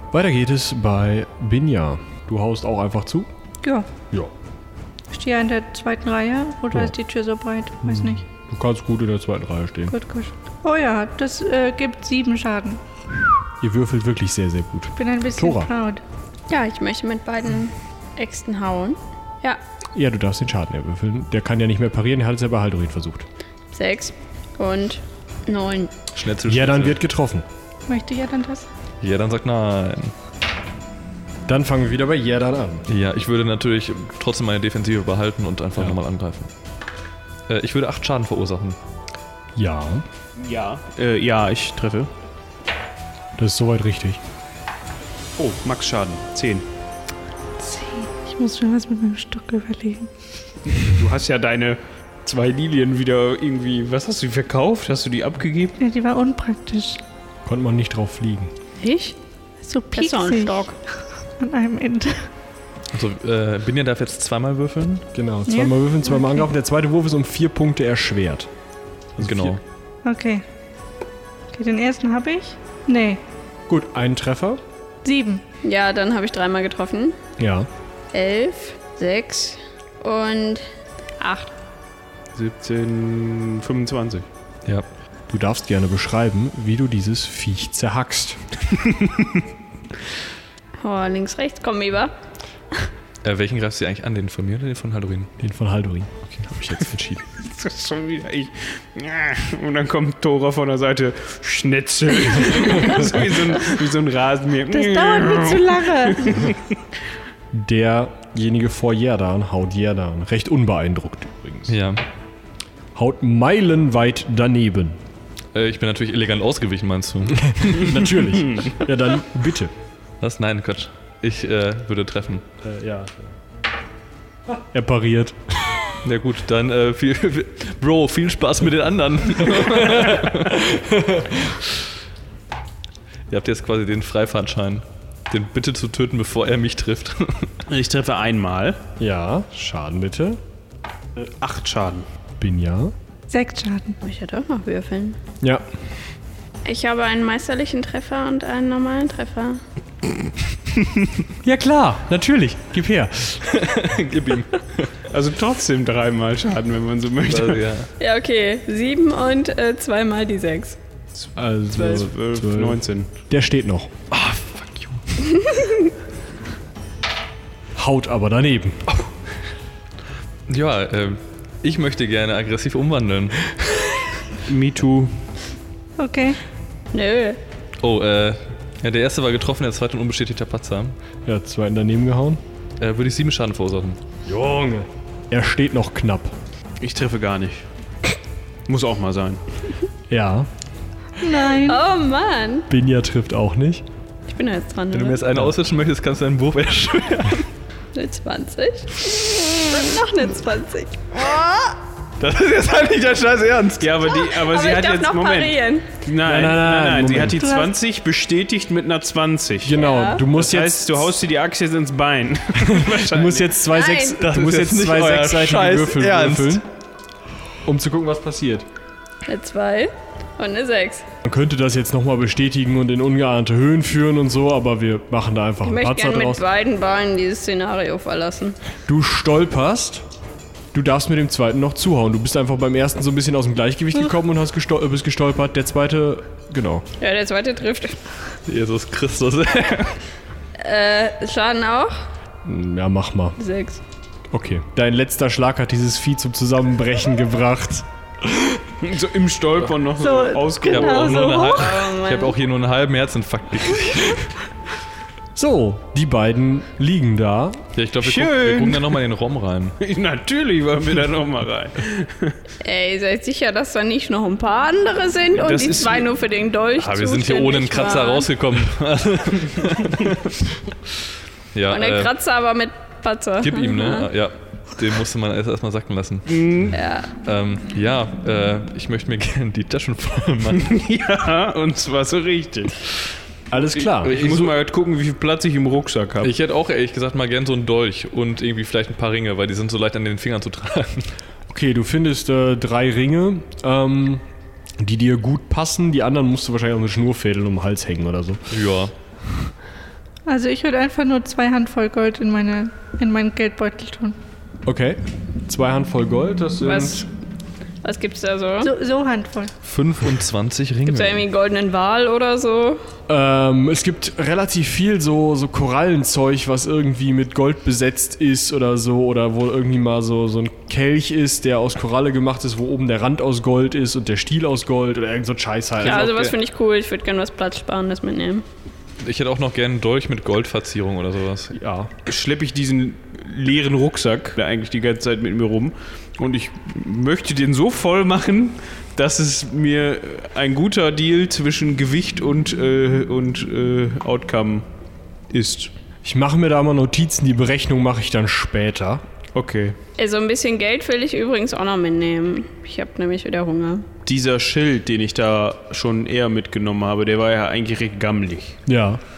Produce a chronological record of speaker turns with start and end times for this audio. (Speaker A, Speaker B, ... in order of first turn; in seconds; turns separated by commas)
Speaker A: 0.1-3.3, Speaker B: 3.6-3.9, Speaker B: 5.1-8.2, Speaker A: 7.8-9.9, Speaker B: 9.9-12.8, Speaker A: 13.6-15.7, Speaker B: 15.0-16.0, Speaker C: 16.5-19.6, Speaker A: 19.9-23.3, Speaker C: 23.7-25.9, Speaker D: 26.1-27.0, Speaker A: 26.4-27.4, Speaker B: 27.9-28.7, Speaker D: 29.0-30.1, Speaker A: 31.4-32.9, Speaker D: 32.9-36.5, Speaker D: 37.5-38.8, Speaker A: 39.5-40.0, Speaker E: 40.4-42.1, Speaker A: 43.4-44.2, Speaker E: 45.4-46.6, Speaker B: 47.6-50.1, Speaker E: 50.7-55.8, Speaker B: 55.8-57.0, Speaker A: 57.4-58.5, Speaker C: 58.8-59.1, Speaker B: 59.6-60.7, Speaker C: 59.9-60.8, Speaker B: 61.4-62.3, Speaker D: 62.9-65.0, Speaker A: 65.1-68.5, Speaker B: 65.5-66.3, Speaker A: 69.2-69.6, Speaker D: 69.2-69.6, Speaker B: 70.0-70.4, Speaker B: 71.5-73.2, Speaker A: 73.7-74.6, Speaker B: 75.0-75.4, Speaker C: 75.6-77.2, Speaker A: 77.4-77.7, Speaker C: 78.1-80.6, Speaker C: 81.2-81.5, Speaker E: 82.3-84.3, Speaker A: 85.3-88.4, Speaker E: 88.7-89.3, Speaker C: 90.8-92.1, Speaker D: 93.2-95.3, Speaker A: 95.4-97.2, Speaker E: 97.3-106.8, Speaker B: 104.7-106.5, Speaker A: 107.5-111.7, Speaker D: 111.7-112.0, Speaker A: 112.9-115.0, Speaker D: 115.5-117.9, Speaker A: 117.4-119.7, Speaker D: 120.2-122.4, Speaker A: 122.6-123.3, Speaker A: 124.5-125.8, Speaker D: 126.0-130.6, Speaker A: 129.8-131.6, Speaker D: 133.3-137.6, Speaker E: 137.7-138.8, Speaker A: 139.0-140.4, Speaker E: 141.2-142.1, Speaker A: 142.4-142.9, Speaker B: 143.3-144.0, Speaker C: 144.0-145.2, Speaker C: 146.6-149.6, Speaker A: 151.4-153.5, Speaker D: 153.4-154.9, Speaker E: 155.1-157.7, Speaker D: 157.3-157.9, Speaker C: 158.0-160.8, Speaker E: 161.1-163.1, Speaker A: 161.3-163.9, Speaker D: 164.1-165.0, Speaker A: 167.8-168.8, Speaker D: 170.5-173.6, Speaker E: 174.4-175.3, Speaker B: 176.0-176.4, Speaker C: 176.9-177.4, Speaker D: 177.8-180.9, Speaker A: 181.2-182.4, Speaker D: 182.8-184.0, Speaker A: 184.2-186.3, Speaker E: 186.8-187.7, Speaker E: 188.7-189.4, Speaker A: 190.1-190.5, Speaker B: 191.2-191.8, Speaker C: 191.6-192.7, Speaker A: 192.7-193.8, Speaker C: 194.3-195.2, Speaker D: 194.9-197.5, Speaker C: 197.9-201.0, Speaker D: 202.2-203.9, Speaker E: 203.8-213.6, Speaker C: 204.1-205.9, Speaker A: 206.2-207.4, Speaker B: 207.4-207.7, Speaker A: 209.6-211.2, Speaker C: 209.8-210.2, Speaker A: 212.6-216.6, Speaker C: 213.7-214.2, Speaker D: 214.2-216.6, Speaker A: 217.6-218.7, Speaker C: 219.2-221.1, Speaker A: 221.2-226.4, Speaker C: 225.6-228.6, Speaker A: 228.8-230.1, Speaker A: 230.7-236.8, Speaker C: 237.0-238.0, Speaker D: 238.4-240.0, Speaker C: 240.6-242.0, Speaker A: 242.4-243.4, Speaker C: 243.4-243.8, Speaker A: 244.3-248.6, Speaker E: 248.8-251.4, Speaker B: 250.0-251.7, Speaker D: 250.6-254.3, Speaker C: 251.2-252.4, Speaker A: 255.3-257.7, Speaker D: 257.8-259.8, Speaker E: 258.0-258.9, Speaker E: 259.8-262.3, Speaker C: 262.6-268.3, Speaker E: 265.3-266.1, Speaker D: 266.8-270.4, Speaker D: 271.5-272.1, Speaker C: 271.7-274.1, Speaker D: 273.4-280.7, Speaker E: 276.3-276.7, Speaker C: 276.7-277.1, Speaker E: 280.6-282.9, Speaker A: 283.5-284.1, Speaker E: 283.5-286.3, Speaker D: 284.0-284.5, Speaker D: 286.2-291.1, Speaker A: 291.5-294.2, Speaker A: 294.8-298.6, Speaker D: 298.5-298.9, Speaker B: 300.2-304.2, Speaker A: 304.6-307.1, Speaker C: 306.6-307.1, Speaker C: 307.8-308.7, Speaker B: 308.6-309.5, Speaker D: 309.6-311.2, Speaker C: 310.9-312.8, Speaker A: 313.1-326.1, Speaker D: 325.8-326.4, Speaker C: 325.8-328.4, Speaker D: 329.0-331.5, Speaker A: 331.5-331.9, Speaker E: 332.0-344.7, Speaker E: 345.3-345.7, Speaker A: 346.0-349.0, Speaker E: 349.3-349.8, Speaker C: 350.0-353.9, Speaker E: 354.0-358.6, Speaker A: 358.7-359.0